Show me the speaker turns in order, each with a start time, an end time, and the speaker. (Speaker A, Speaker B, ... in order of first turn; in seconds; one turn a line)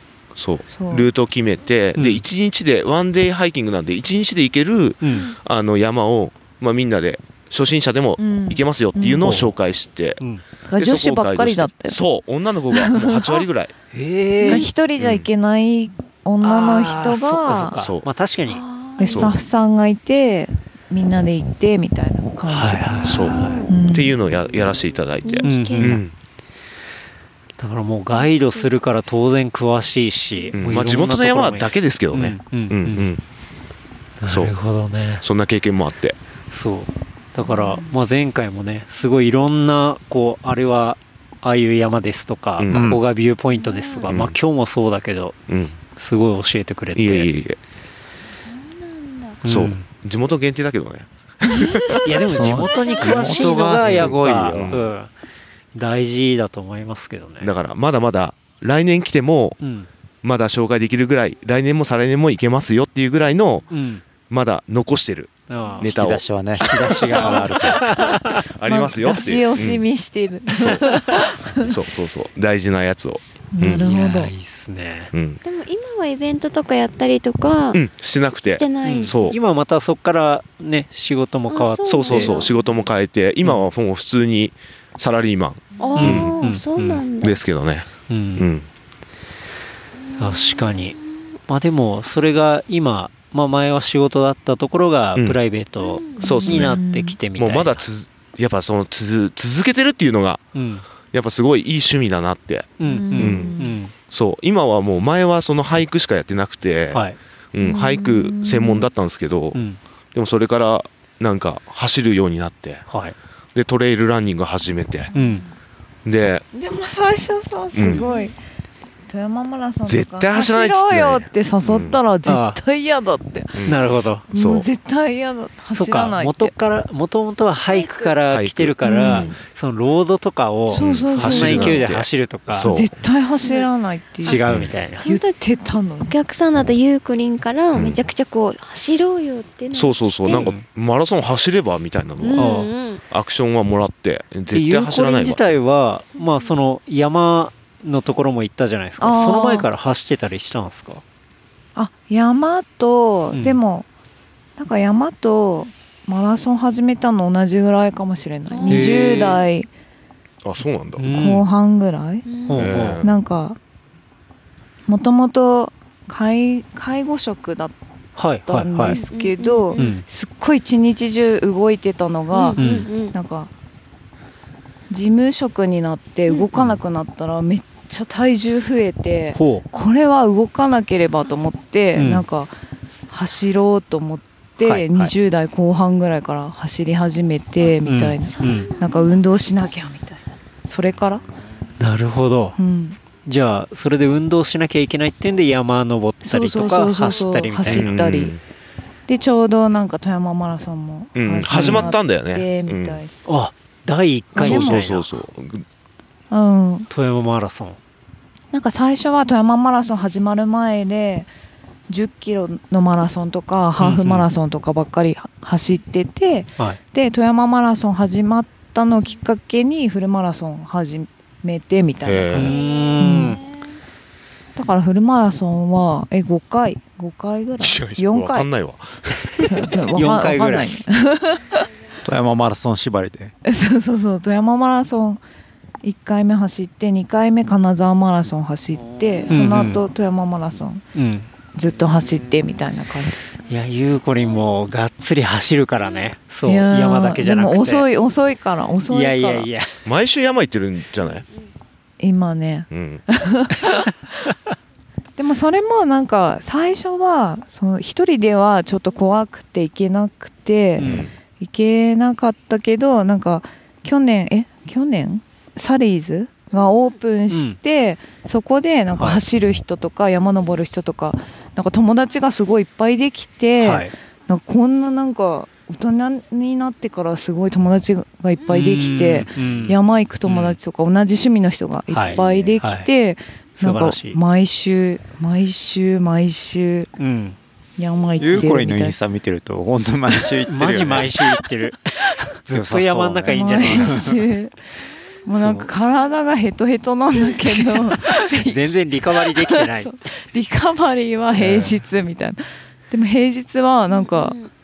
Speaker A: 0.3-10.2
Speaker B: 0.6-1.1
Speaker C: 1.9-2.2
Speaker C: 5.0-5.3
Speaker B: 8.2-9.3
Speaker C: 9.2-9.5
Speaker B: 10.7-12.0
Speaker A: 10.8-13.7
Speaker B: 12.7-13.4
Speaker C: 13.9-14.7
Speaker B: 14.4-17.8
Speaker A: 14.5-15.3
Speaker C: 16.4-18.6
Speaker A: 17.8-18.1
Speaker D: 18.4-19.4
Speaker B: 19.0-24.1
Speaker A: 19.0-19.4
Speaker C: 22.5-23.6
Speaker A: 23.0-26.1
Speaker D: 23.2-23.7
Speaker D: 25.2-26.0
Speaker C: 25.4-26.0
Speaker C: 27.6-33.1
Speaker D: 28.2-28.7
Speaker A: 30.5-33.2
Speaker C: 34.2-35.2
Speaker A: 34.2-34.5
Speaker A: 35.2-36.2
Speaker C: 36.5-45.4
Speaker B: 37.5-37.8
Speaker A: 42.6-43.0
Speaker E: 42.7-43.0
Speaker D: 43.5-44.1
Speaker A: 44.0-44.4
Speaker A: 45.5-45.8
Speaker C: 45.9-47.3
Speaker A: 46.9-47.6
Speaker D: 48.4-49.4
Speaker C: 49.4-49.9
Speaker A: 49.4-52.1
Speaker B: 51.5-51.8
Speaker C: 52.0-55.1
Speaker E: 52.2-54.8
Speaker D: 52.6-53.8
Speaker A: 53.8-54.9
Speaker C: 55.7-57.5
Speaker A: 57.4-59.6
Speaker C: 59.6-59.9
Speaker A: 60.2-63.7
Speaker C: 63.7-64.0
Speaker A: 64.3-66.2
Speaker C: 65.5-65.9
Speaker E: 65.8-68.0
Speaker C: 66.6-68.4
Speaker B: 67.9-71.8
Speaker A: 68.4-69.8
Speaker A: 70.6-70.9
Speaker A: 71.7-74.0
Speaker B: 73.5-74.3
Speaker C: 73.7-75.1
Speaker A: 75.1-75.4
Speaker D: 75.4-79.2
Speaker A: 77.7-79.4
Speaker C: 78.8-82.4
Speaker D: 81.5-82.9
Speaker A: 81.8-86.4
Speaker D: 85.8-87.4
Speaker C: 86.0-87.0
Speaker A: 87.2-88.7
Speaker C: 88.1-88.5
Speaker D: 90.0-91.0
Speaker C: 90.2-91.0
Speaker C: 91.5-97.9
Speaker A: 95.1-95.4
Speaker D: 95.8-96.5
Speaker A: 96.2-96.8
Speaker B: 96.2-97.2
Speaker A: 97.3-100.5
Speaker C: 100.5-100.8
Speaker A: 101.1-109.6
Speaker C: 102.8-103.9
Speaker B: 102.9-103.8
Speaker C: 106.9-107.2
Speaker B: 107.6-108.9
Speaker C: 109.5-109.8
Speaker A: 110.1-112.8
Speaker C: 112.9-113.2
Speaker A: 113.5-115.1
Speaker B: 115.1-115.5
Speaker C: 115.1-115.4
Speaker A: 116.0-116.4
Speaker B: 116.5-118.3
Speaker A: 117.7-118.0
Speaker D: 117.8-118.3
Speaker B: 119.1-123.8
Speaker A: 119.8-122.0
Speaker C: 122.2-122.6
Speaker A: 123.5-124.7
Speaker C: 123.7-124.2
Speaker B: 124.3-126.5
Speaker C: 125.7-132.7
Speaker D: 127.7-128.1
Speaker A: 128.3-129.3
Speaker B: 128.8-129.3
Speaker B: 130.7-131.8
Speaker A: 130.8-133.0
Speaker B: 132.6-134.4
Speaker D: 133.3-133.7
Speaker C: 134.2-135.1
Speaker D: 134.2-135.4
Speaker B: 135.0-136.2
Speaker D: 136.0-140.5
Speaker A: 137.7-138.0
Speaker A: 139.7-142.6
Speaker C: 140.3-140.6
Speaker D: 142.2-143.0
Speaker C: 142.3-142.7
Speaker A: 143.1-145.4
Speaker C: 144.5-151.0
Speaker D: 146.2-146.5
Speaker B: 149.0-149.7
Speaker B: 151.8-153.9
Speaker C: 153.3-153.6
Speaker B: 154.6-159.7
Speaker D: 158.5-159.2
Speaker C: 158.7-159.4
Speaker A: 160.4-161.1
Speaker C: 161.0-161.5
Speaker B: 161.1-162.4
Speaker D: 162.2-162.6
Speaker C: 162.5-163.0
Speaker A: 162.5-163.2
Speaker B: 163.0-163.6
Speaker B: 164.9-167.7
Speaker C: 168.2-169.0
Speaker B: 168.4-173.5
Speaker D: 168.9-169.9
Speaker C: 169.8-170.0
Speaker D: 172.3-173.1
Speaker C: 172.6-172.9
Speaker B: 174.9-182.5
Speaker C: 179.3-179.6
Speaker C: 181.9-182.2
Speaker B: 183.1-191.2
Speaker C: 184.6-185.1
Speaker C: 187.8-188.7
Speaker D: 188.2-189.1
Speaker C: 191.8-192.6
Speaker B: 192.6-193.0
Speaker C: 193.2-197.9
Speaker B: 196.2-198.3
Speaker A: 197.6-198.4
Speaker B: 199.1-203.1
Speaker A: 201.1-203.0
Speaker C: 201.5-201.9
Speaker C: 203.2-205.0
Speaker B: 204.3-205.0
Speaker A: 204.3-205.6
Speaker B: 206.3-206.9
Speaker C: 206.9-207.8
Speaker B: 208.5-211.3
Speaker B: 211.9-222.5
Speaker C: 213.8-214.3
Speaker A: 222.0-222.6
Speaker C: 222.3-223.4
Speaker D: 222.4-223.6
Speaker B: 223.0-223.4
Speaker B: 224.6-228.5
Speaker A: 227.6-229.7
Speaker B: 229.5-231.7
Speaker C: 229.9-230.7
Speaker E: 232.0-233.3
Speaker B: 233.4-235.2
Speaker B: 235.8-240.8
Speaker C: 239.3-239.8
Speaker C: 240.9-241.3
Speaker B: 241.5-243.3
Speaker C: 243.4-247.9
Speaker B: 246.4-249.5
Speaker C: 248.9-249.8
Speaker A: 249.8-251.2
Speaker B: 252.0-254.3
Speaker A: 252.7-253.0
Speaker B: 255.2-286.9
Speaker C: 260.8-261.1
Speaker A: 260.8-261.1
Speaker C: 267.3-267.6
Speaker C: 273.6-273.9
Speaker C: 278.4-280.6
Speaker C: 281.9-282.9
Speaker C: 283.6-284.2
Speaker C: 287.0-287.4
Speaker B: 287.8-289.0
Speaker E: 288.2-291.2
Speaker C: 290.5-294.1
Speaker E: 292.5-294.2
Speaker B: 293.3-294.5
Speaker B: 295.2-304.4
Speaker C: 295.3-295.7
Speaker C: 297.6-299.9
Speaker C: 301.3-301.8
Speaker D: 303.9-304.5